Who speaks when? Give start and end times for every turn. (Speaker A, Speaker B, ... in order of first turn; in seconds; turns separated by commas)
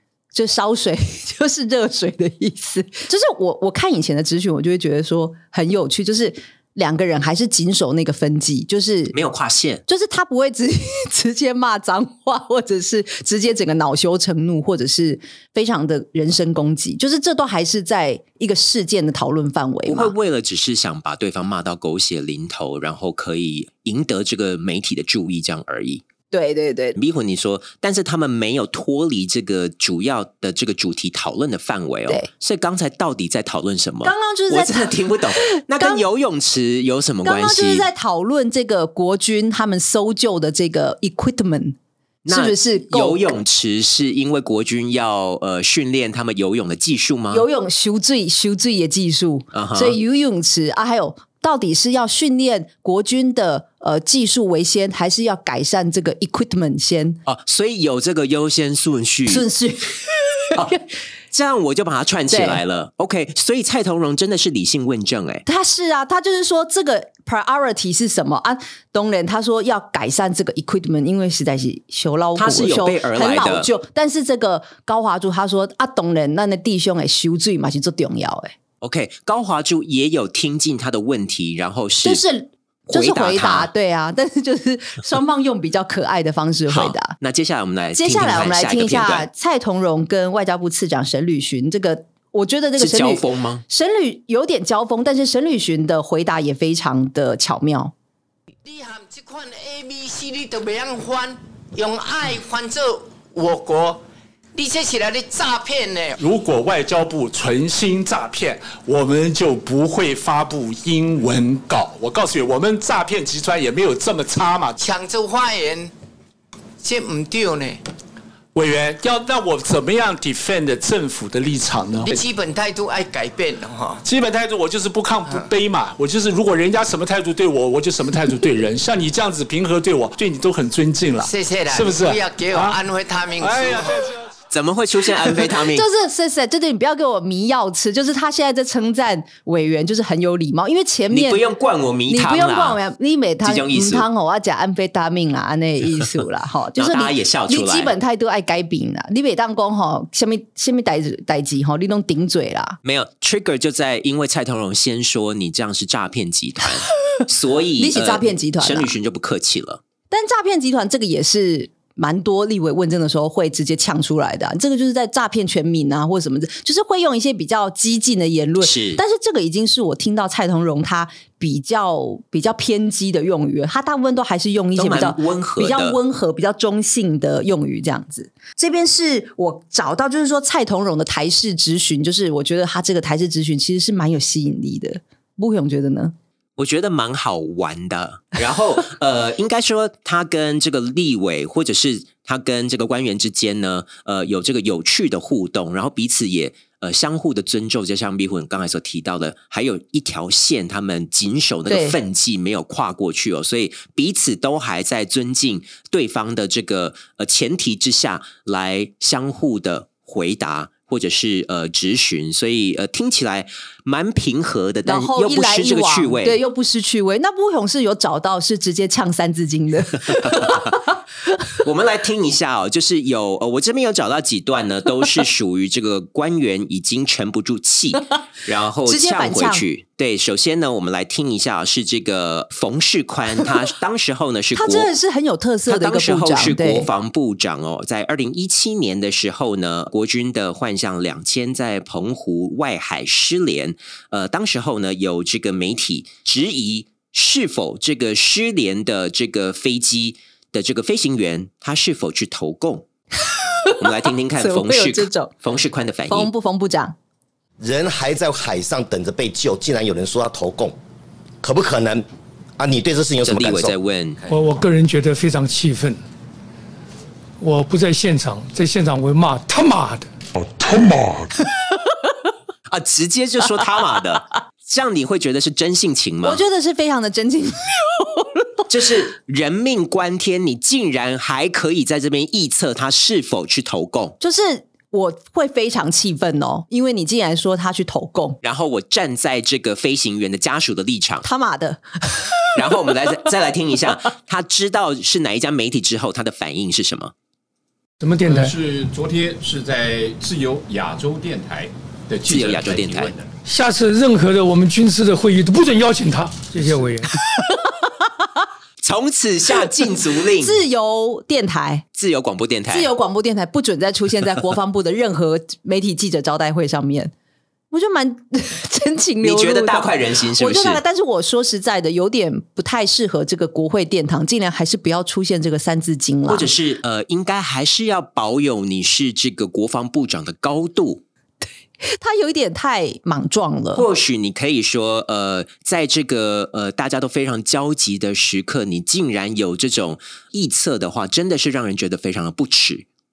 Speaker A: 0.3-9.2, Speaker B: 9.1-9.8, Speaker A: 9.9-20.1, Speaker B: 19.9-26.0, Speaker A: 26.3-27.0, Speaker B: 26.9-37.9, Speaker A: 34.0-36.0, Speaker A: 37.2-41.8, Speaker B: 42.2-47.5, Speaker A: 42.3-43.4, Speaker A: 47.3-57.2, Speaker B: 49.5-50.0, Speaker B: 57.2-59.5, Speaker A: 59.3-60.5, Speaker B: 61.3-65.4, Speaker A: 62.3-62.6, Speaker A: 65.5-78.5, Speaker B: 72.4-73.7, Speaker B: 78.8-82.2, Speaker A: 82.0-87.1, Speaker B: 82.9-83.7, Speaker B: 86.7-89.3, Speaker A: 88.0-97.9, Speaker B: 92.8-93.6, Speaker C: 98.6-104.0, Speaker C: 104.5-106.2, Speaker D: 106.2-114.8, Speaker C: 114.8-115.9, Speaker C: 116.8-117.8, Speaker D: 118.5-122.2, Speaker C: 122.0-124.0, Speaker D: 124.0-132.8, Speaker C: 131.2-134.0, Speaker D: 133.4-134.1, Speaker B: 134.5-135.9, Speaker A: 135.7-141.4, Speaker B: 141.1-142.8, Speaker A: 142.1-152.8, Speaker B: 143.4-144.1, Speaker B: 146.8-147.9, Speaker B: 152.8-159.8, Speaker A: 157.8-158.9, Speaker A: 160.1-186.1, Speaker B: 168.6-169.0, Speaker B: 174.8-176.0, Speaker B: 186.6-216.4, Speaker A: 201.7-202.0, Speaker A: 214.9-220.8, Speaker B: 220.2-220.7, Speaker B: 221.6-234.9, Speaker A: 228.9-229.6, Speaker A: 234.5-236.9, Speaker B: 235.7-252.9, Speaker B: 253.8-256.3, Speaker A: 254.3-255.3, Speaker A: 256.1-256.9, Speaker E: 257.6-260.8, Speaker E: 261.4-262.0, Speaker E: 262.6-263.8, Speaker B: 263.2-264.2, Speaker F: 264.2-266.0, Speaker F: 267.4-270.1, Speaker B: 272.7-276.4, Speaker A: 276.2-278.2, Speaker B: 278.7-284.2, Speaker A: 284.2-288.4, Speaker B: 288.4-291.2, Speaker A: 291.2-292.3, Speaker B: 292.5-297.1, Speaker F: 298.0-298.5, Speaker G: 298.2-303.3, Speaker B: 302.3-303.1, Speaker F: 303.4-307.5, Speaker B: 308.8-310.6, Speaker A: 310.4-311.9, Speaker B: 312.0-312.9, Speaker A: 312.7-317.1, Speaker A: 317.7-326.5, Speaker B: 319.2-320.8, Speaker B: 326.3-331.0, Speaker A: 331.9-333.9, Speaker B: 333.8-342.9